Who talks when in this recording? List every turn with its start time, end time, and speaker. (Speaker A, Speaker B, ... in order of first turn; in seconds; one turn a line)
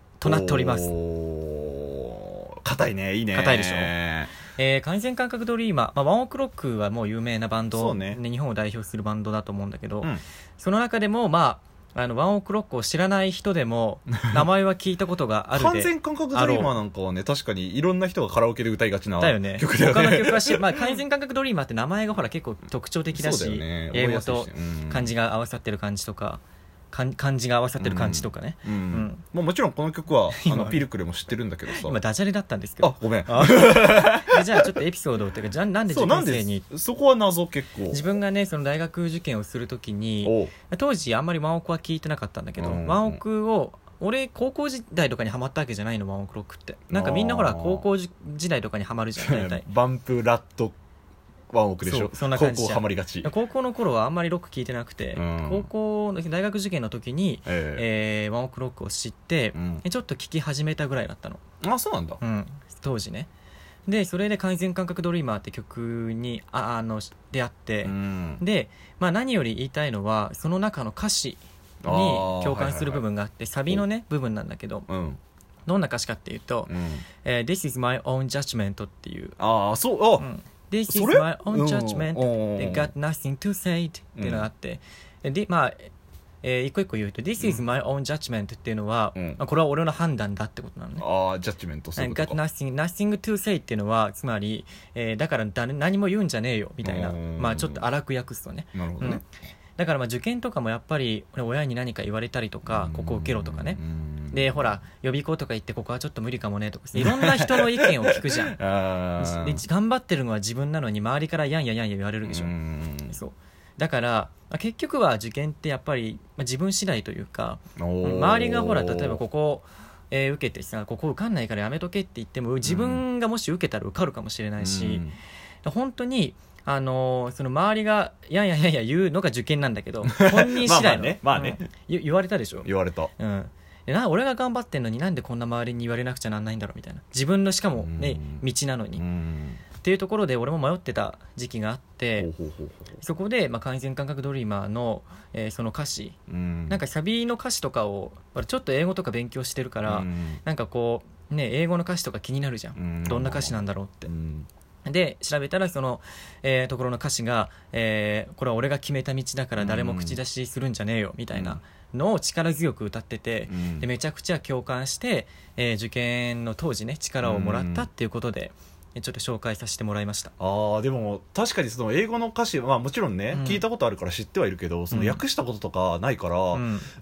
Speaker A: 0.2-0.9
Speaker B: 0.2-4.3
Speaker A: 3.3-3.9
Speaker A: 4.5-16.7
Speaker B: 7.7-8.2
Speaker B: 15.5-21.0
Speaker A: 19.2-29.2
Speaker B: 23.1-25.1
Speaker B: 27.8-32.0
Speaker A: 30.3-30.8
Speaker A: 31.7-36.6
Speaker B: 32.8-34.8
Speaker B: 35.9-38.0
Speaker A: 37.9-49.6
Speaker B: 40.2-40.5
Speaker B: 42.6-43.2
Speaker B: 46.9-47.9
Speaker B: 49.2-50.7
Speaker B: 51.5-53.3
Speaker A: 51.8-61.4
Speaker B: 55.1-55.7
Speaker B: 57.5-57.9
Speaker B: 59.5-59.8
Speaker B: 61.6-62.2
Speaker A: 62.2-63.3
Speaker A: 63.9-74.9
Speaker B: 67.8-68.4
Speaker B: 71.8-73.0
Speaker B: 74.9-75.2
Speaker A: 75.7-76.7
Speaker B: 76.7-77.0
Speaker A: 77.2-79.3
Speaker B: 79.4-80.2
Speaker A: 80.2-85.9
Speaker B: 80.9-82.9
Speaker B: 84.2-84.5
Speaker A: 86.4-91.0
Speaker B: 91.0-92.4
Speaker A: 92.0-99.2
Speaker B: 96.8-97.8
Speaker B: 98.7-99.2
Speaker A: 99.8-103.8
Speaker B: 102.7-104.6
Speaker A: 104.3-108.6
Speaker B: 107.0-109.6
Speaker A: 109.2-112.5
Speaker B: 112.2-113.2
Speaker A: 113.1-125.0
Speaker B: 117.8-119.2
Speaker B: 122.6-123.0
Speaker B: 124.6-125.2
Speaker A: 125.6-139.0
Speaker B: 130.1-131.6
Speaker B: 132.6-133.1
Speaker B: 137.8-138.4
Speaker B: 139.0-139.6
Speaker A: 139.8-142.3
Speaker B: 142.2-143.0
Speaker A: 143.0-146.2
Speaker B: 146.3-146.8
Speaker A: 146.7-154.1
Speaker B: 149.8-150.4
Speaker B: 152.8-154.5
Speaker A: 154.8-170.3
Speaker B: 159.6-160.2
Speaker B: 161.3-161.6
Speaker B: 163.5-163.9
Speaker B: 167.2-167.9
Speaker B: 170.4-176.6
Speaker A: 173.3-173.6
Speaker A: 174.9-175.2
Speaker A: 176.5-176.9